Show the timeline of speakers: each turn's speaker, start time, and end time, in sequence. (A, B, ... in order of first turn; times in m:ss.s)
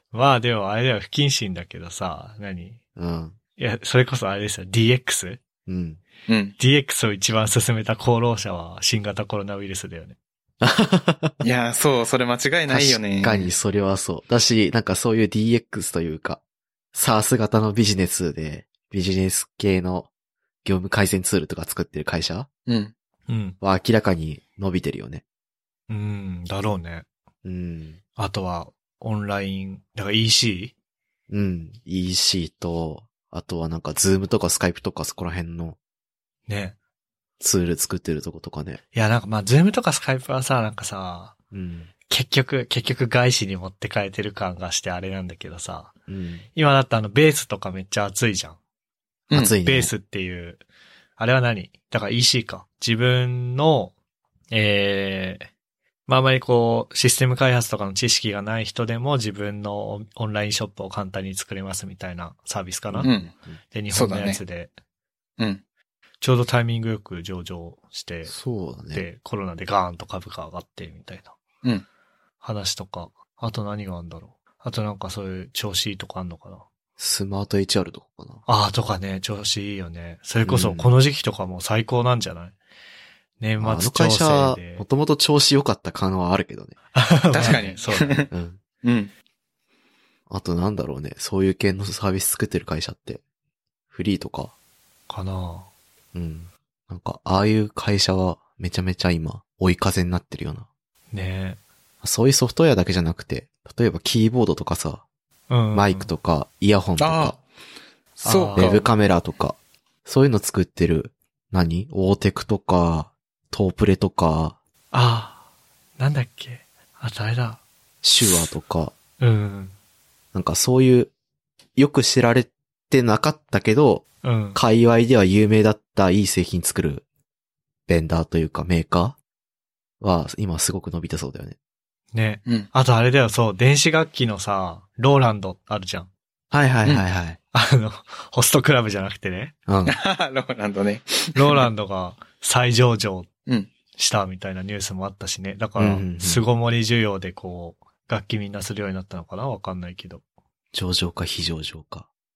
0:00.1-0:02.8 A
0:03.0-0:03.4 B
0:03.6-0:05.4 A
0:05.7-0:06.0 B
0:06.3-0:06.5 C
0:06.6-0:10.2 A
0:10.6-0:11.4 B
0:11.4-0:13.5 C
0:12.7-0:16.4 B
0:16.9-0:20.1 B
0:20.6-0:22.5 B
0:22.7-0:22.9 C
0:23.3-0:23.6 A
0:23.6-0:25.2 B
0:25.9-0:27.0 A
0:27.4-0:28.0 B
0:28.2-0:30.7 A
0:31.3-0:35.8 B
0:36.5-0:36.8 A
0:37.4-0:38.8 B
0:38.9-0:41.3 A
0:41.5-0:41.9 B
0:42.1-0:45.9 A
0:46.1-0:46.4 B
0:46.5-0:48.6 A
0:49.3-0:49.9 B
0:49.6-0:50.6 A
0:51.2-0:53.9 A
0:54.5-0:55.5 A
0:56.1-1:03.1 A
1:02.9-1:03.6 B
1:03.0-1:03.3 C
1:03.7-1:04.7 A
1:03.9-1:04.4 C
1:06.2-1:08.3 A
1:08.2-1:09.0 B
1:08.9-1:11.4 A
1:12.4-1:16.6 A
1:17.0-1:18.4 B
1:18.4-1:22.5 A
1:20.4-1:20.9 B
1:23.4-1:24.8 A
1:23.6-1:26.7 B
1:26.9-1:28.3 A
1:27.3-1:28.3 C
1:28.3-1:28.6 B
1:28.8-1:29.1 C
1:30.3-1:33.2 B
1:33.9-1:34.5 B
1:35.1-1:35.7 A
1:36.1-1:40.6 B
1:41.1-1:41.6 A
1:42.0-1:45.0 B
1:45.5-1:46.1 A
1:45.7-1:47.4 B
1:47.0-1:47.4 C
1:48.2-1:48.9 C
1:48.2-1:48.8 A
1:48.3-1:54.6 B
1:54.9-1:55.4 A
1:56.0-1:57.6 A
1:58.0-1:58.9 B
1:59.2-1:59.7 A
2:00.3-2:01.1 B
2:01.8-2:07.0 B
2:04.2-2:04.6 A
2:07.9-2:09.2 B
2:10.0-2:11.5 B
2:12.1-2:16.1 A
2:16.5-2:17.4 B
2:17.5-2:19.5 A
2:19.7-2:20.0 B
2:19.8-2:21.7 C
2:21.3-2:23.3 A
2:24.0-2:30.2 A
2:25.8-2:26.4 B
2:30.7-2:32.1 B